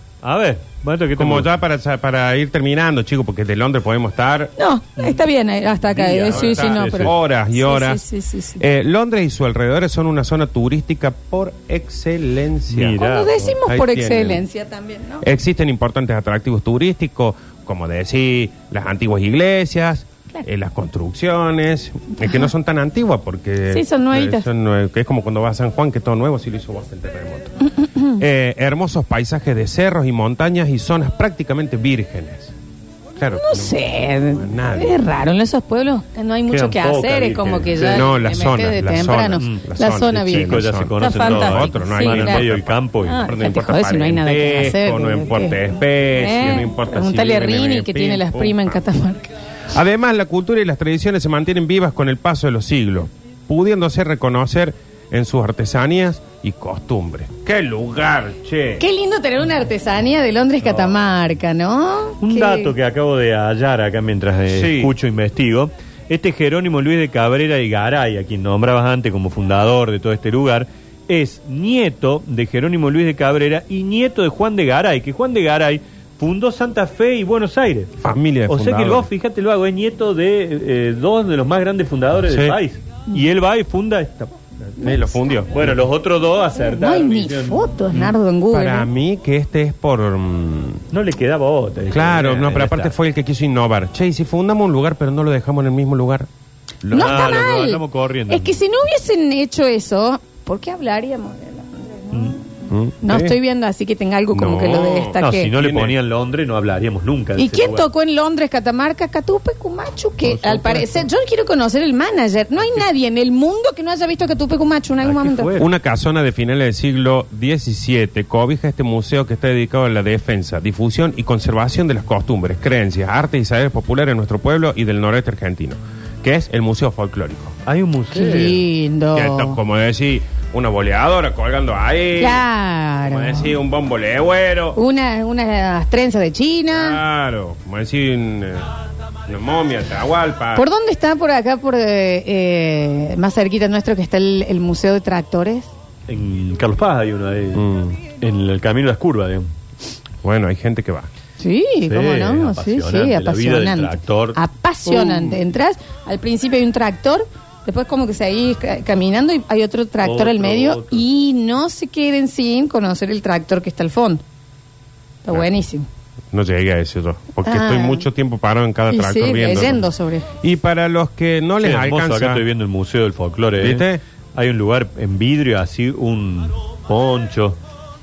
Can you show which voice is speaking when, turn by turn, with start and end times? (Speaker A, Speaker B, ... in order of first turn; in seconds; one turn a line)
Speaker A: 0.2-1.5
Speaker B: 1.1-4.5
Speaker C: 4.6-8.6
Speaker A: 5.8-7.1
Speaker B: 6.3-8.0
Speaker B: 8.6-14.4
Speaker A: 12.7-13.5
Speaker C: 12.9-15.2
Speaker B: 15.2-32.5
Speaker C: 23.7-24.5
Speaker B: 33.1-33.8
Speaker C: 33.3-42.5
Speaker B: 34.3-35.0
Speaker A: 36.5-38.1
Speaker B: 37.9-48.8
Speaker A: 39.4-39.6
Speaker A: 40.3-43.2
Speaker C: 43.0-49.3
Speaker B: 49.7-58.8
Speaker C: 58.8-62.7
Speaker A: 62.2-78.0
Speaker B: 64.5-64.9
Speaker B: 78.0-79.1
Speaker A: 78.5-84.3
Speaker B: 82.3-82.6
Speaker C: 84.8-85.2
Speaker B: 84.8-85.6
Speaker A: 85.5-88.1
Speaker C: 86.6-88.9
Speaker B: 88.5-90.8
Speaker A: 90.9-92.9
Speaker B: 91.9-96.3
Speaker B: 96.8-97.5
Speaker C: 96.9-102.4
Speaker A: 96.9-98.6
Speaker B: 102.7-103.4
Speaker C: 103.0-105.5
Speaker B: 104.3-106.0
Speaker A: 105.2-107.9
Speaker C: 107.4-115.5
Speaker A: 110.2-111.1
Speaker A: 115.0-115.7
Speaker B: 115.6-127.5
Speaker A: 127.6-128.6
Speaker C: 128.1-129.6
Speaker B: 129.1-132.4
Speaker C: 132.2-133.5
Speaker B: 133.0-134.8
Speaker C: 134.7-137.0
Speaker B: 136.7-138.7
Speaker B: 139.3-140.6
Speaker C: 140.5-145.7
Speaker A: 146.1-149.5
Speaker B: 147.5-148.0
Speaker B: 150.2-151.1
Speaker C: 151.4-164.2
Speaker A: 151.8-154.4
Speaker A: 160.0-161.0
Speaker C: 165.2-165.9
Speaker B: 166.3-169.8
Speaker C: 167.4-168.0
Speaker C: 168.9-170.2
Speaker B: 170.4-172.4
Speaker A: 171.6-177.6
Speaker B: 173.6-174.0